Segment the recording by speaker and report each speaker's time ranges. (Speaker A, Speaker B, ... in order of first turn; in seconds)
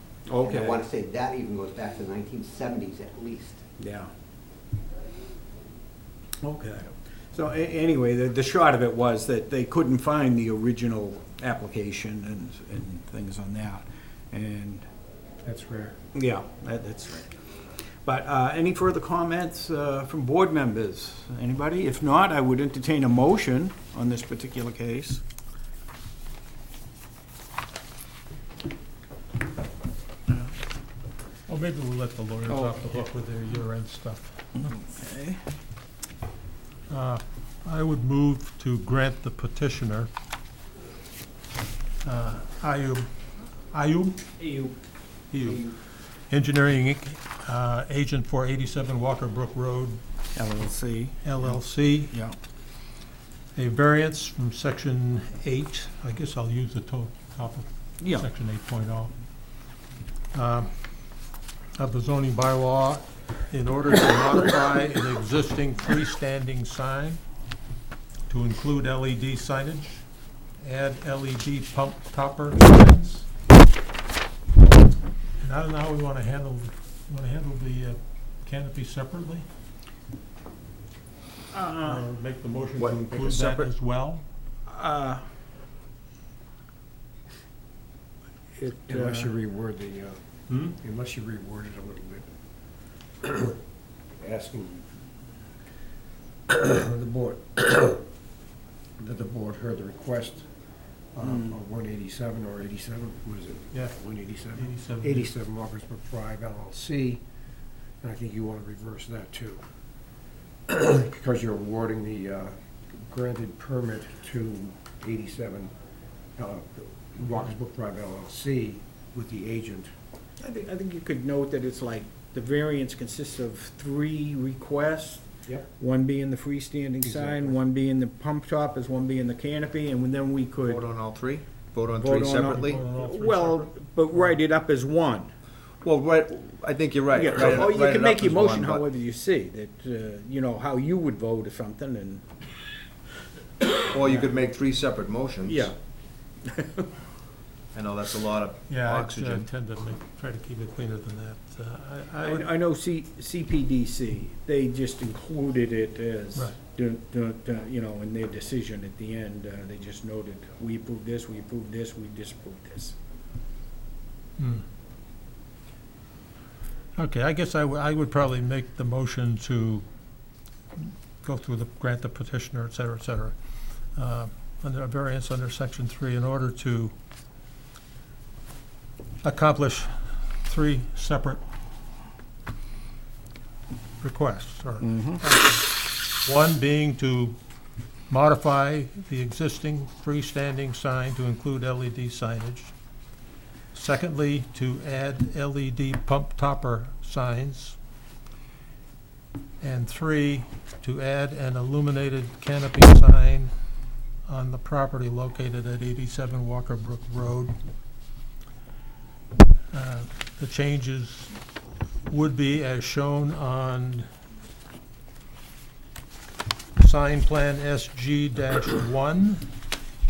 Speaker A: 0.3-0.9, 3.8-4.1, 6.4-14.9, 16.1-25.2, 32.5-32.9, 34.6-35.4, 44.4-44.7, 50.4-51.2, 52.1-52.4, 58.0-58.3, 81.5-82.0, 82.8-83.7, 84.7-85.2, 88.6-89.4, 101.2-101.6, 120.4-125.3, 125.8-130.8, 132.0-135.3, 137.1-142.2, 144.0-144.3, 145.5-145.7, 146.4-146.9, 152.2-163.0, 184.8-185.2
Speaker B: 0.4-3.6
Speaker C: 15.4-16.0, 88.9-90.2, 90.8-92.3, 93.2-93.6, 94.2-94.9, 96.5-98.0, 99.0-100.5, 101.2-107.2, 108.0-109.6, 110.7-115.7, 116.4-119.9, 127.0-127.6
Speaker D: 31.5-34.7, 36.9-40.1, 42.0-44.2, 45.3-45.7, 46.3-50.0, 51.2-52.2, 53.5-59.1, 60.3-60.7, 61.8-67.2, 68.3-70.0, 70.6-73.3, 75.4-79.5, 81.8-84.3, 90.5-90.8, 104.5-105.3, 132.5-134.3, 148.7-152.5, 164.4-164.7, 167.0-169.9, 170.8-173.4, 173.9-176.9, 179.2-181.4, 184.0-185.7, 186.2-187.4, 188.1-192.7, 193.7-197.8, 199.6-203.5, 204.3-207.6, 209.7-211.4, 212.1-214.1, 216.8-219.5
Speaker E: 130.6-132.8, 135.8-138.8, 143.9-145.7, 147.7-149.5